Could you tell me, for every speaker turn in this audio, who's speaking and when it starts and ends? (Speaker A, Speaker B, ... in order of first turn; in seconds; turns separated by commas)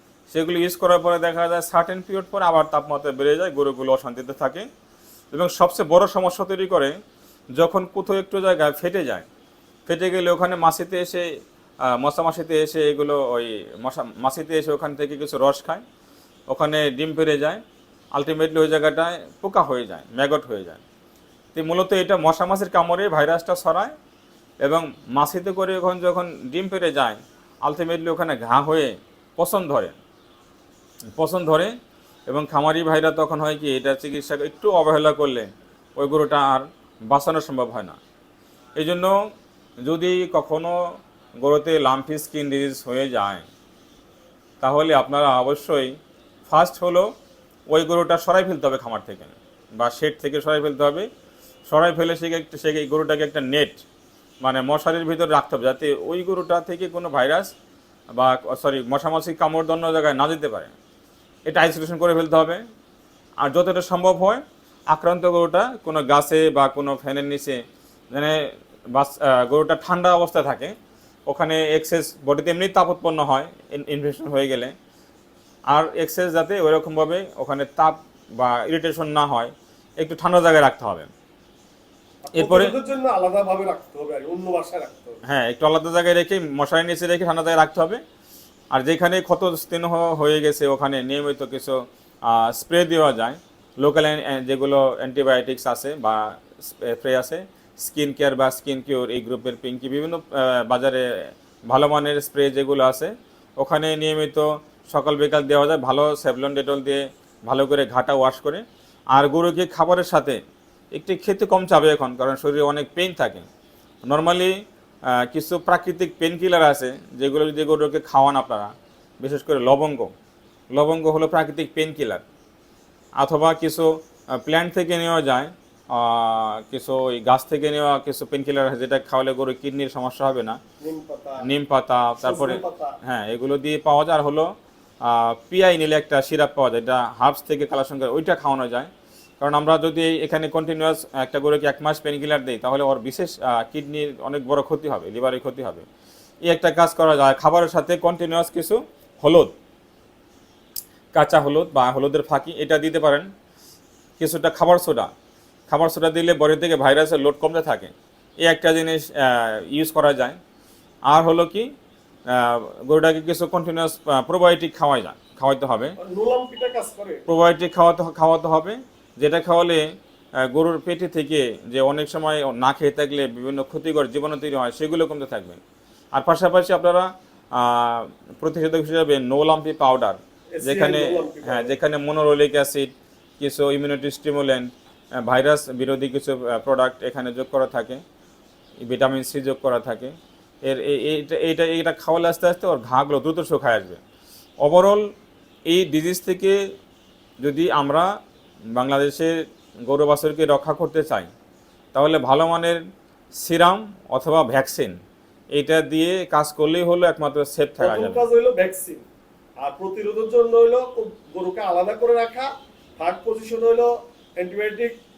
Speaker A: 0.3-4.7, Speaker A: 5.3-6.9, Speaker A: 7.6-9.2, Speaker A: 9.8-11.2, Speaker A: 11.8-15.8, Speaker A: 16.5-17.6, Speaker A: 18.1-20.8, Speaker A: 21.5-23.9, Speaker A: 24.6-29.9, Speaker A: 31.1-31.7, Speaker A: 32.3-38.0, Speaker A: 38.8-39.1, Speaker A: 39.8-40.7, Speaker A: 41.4-43.5, Speaker A: 44.6-45.9, Speaker A: 46.5-47.0, Speaker A: 47.7-51.1, Speaker A: 51.7-53.8, Speaker A: 54.4-57.5, Speaker A: 58.1-60.7, Speaker A: 61.5-62.6, Speaker A: 63.4-67.6, Speaker A: 68.1-68.4, Speaker A: 68.9-70.7, Speaker A: 71.3-74.7, Speaker A: 75.7-81.1, Speaker B: 82.3-85.2, Speaker A: 82.3-82.7, Speaker A: 85.2-88.0, Speaker A: 88.7-110.4, Speaker A: 110.9-113.4, Speaker A: 114.1-114.5, Speaker A: 115.1-120.1, Speaker A: 120.7-122.2, Speaker A: 123.2-130.6, Speaker B: 130.8-131.4, Speaker A: 131.4-134.5, Speaker B: 132.2-132.9, Speaker A: 135.0-138.9, Speaker A: 139.4-145.8, Speaker A: 146.4-149.5, Speaker A: 151.1-153.3, Speaker A: 154.2-155.1, Speaker A: 155.7-157.9, Speaker A: 158.4-160.4, Speaker A: 161.1-161.7, Speaker A: 162.3-165.9, Speaker B: 166.0-167.2, Speaker A: 167.3-169.8, Speaker A: 170.4-175.6, Speaker A: 176.1-184.7, Speaker B: 180.5-181.8, Speaker A: 185.2-188.0, Speaker A: 188.8-190.1, Speaker A: 190.6-194.0, Speaker A: 194.6-195.0, Speaker A: 195.7-196.6, Speaker A: 197.4-198.1, Speaker A: 198.8-199.3, Speaker A: 199.9-201.3, Speaker A: 201.9-202.8, Speaker A: 203.4-204.9, Speaker A: 205.6-208.3, Speaker B: 207.8-209.0, Speaker B: 209.6-214.9